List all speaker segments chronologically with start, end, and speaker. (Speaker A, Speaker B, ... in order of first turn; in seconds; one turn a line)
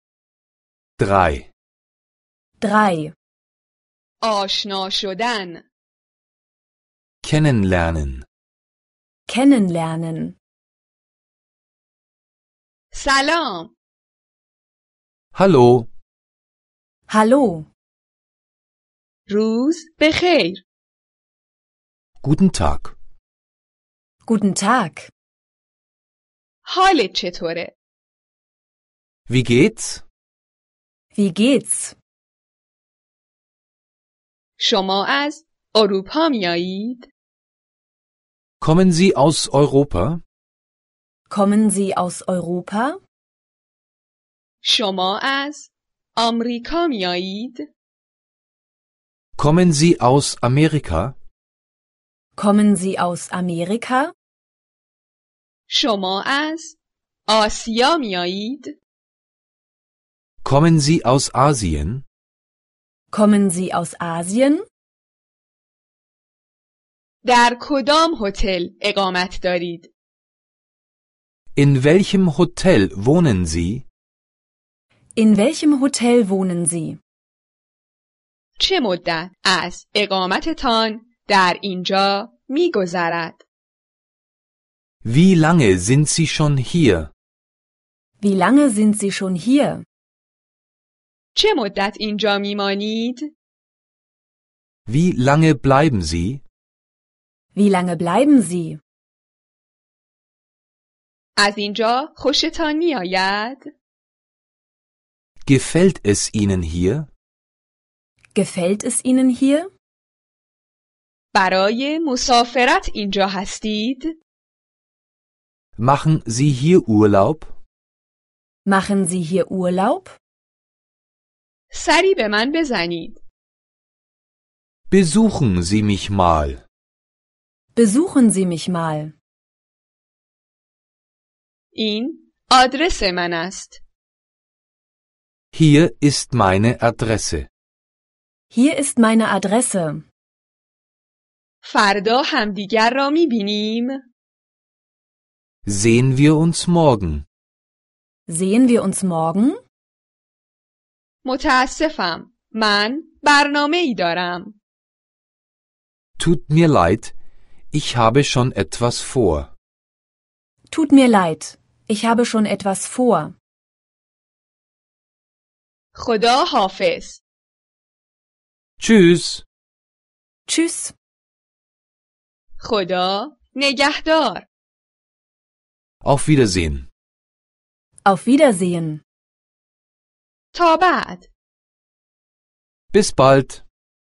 Speaker A: 1.0-1.5
Speaker B: 2.6-3.1
Speaker C: 4.2-5.6
Speaker A: 7.2-8.2
Speaker B: 9.3-10.3
Speaker C: 12.9-13.7
Speaker A: 15.3-15.9
Speaker B: 17.1-17.7
Speaker C: 19.3-20.6
Speaker A: 22.2-22.9
Speaker B: 24.2-25.1
Speaker C: 26.6-27.7
Speaker A: 29.3-30.0
Speaker B: 31.1-32.0
Speaker C: 34.6-37.1
Speaker A: 38.6-40.2
Speaker B: 41.3-43.0
Speaker C: 44.6-47.6
Speaker A: 49.4-51.1
Speaker B: 52.4-54.1
Speaker C: 55.7-56.8
Speaker C: 57.3-58.7
Speaker A: 60.4-62.0
Speaker B: 63.1-64.6
Speaker C: 67.2-69.9
Speaker A: 71.5-73.8
Speaker B: 75.2-77.0
Speaker C: 78.6-83.4
Speaker A: 85.0-87.1
Speaker B: 88.2-89.8
Speaker C: 91.3-93.3
Speaker A: 94.9-96.4
Speaker B: 97.5-98.8
Speaker C: 101.4-103.7
Speaker A: 105.4-107.1
Speaker B: 108.3-109.7
Speaker C: 111.3-114.2
Speaker A: 115.8-117.5
Speaker B: 118.7-120.2
Speaker C: 121.7-123.2
Speaker A: 124.9-126.6
Speaker B: 127.7-129.1
Speaker C: 131.7-133.8
Speaker A: 135.5-137.5
Speaker B: 138.5-140.0
Speaker C: 141.6-144.0
Speaker A: 145.7-147.2
Speaker B: 148.3-149.6
Speaker C: 151.2-154.6
Speaker A: 156.2-157.1
Speaker A: 157.7-159.5
Speaker B: 160.7-163.3
Speaker C: 165.9-167.2
Speaker A: 168.8-169.4
Speaker B: 170.5-170.9
Speaker C: 172.6-174.4
Speaker A: 176.0-176.9
Speaker B: 178.0-179.0
Speaker C: 180.5-181.3
Speaker A: 182.9-183.6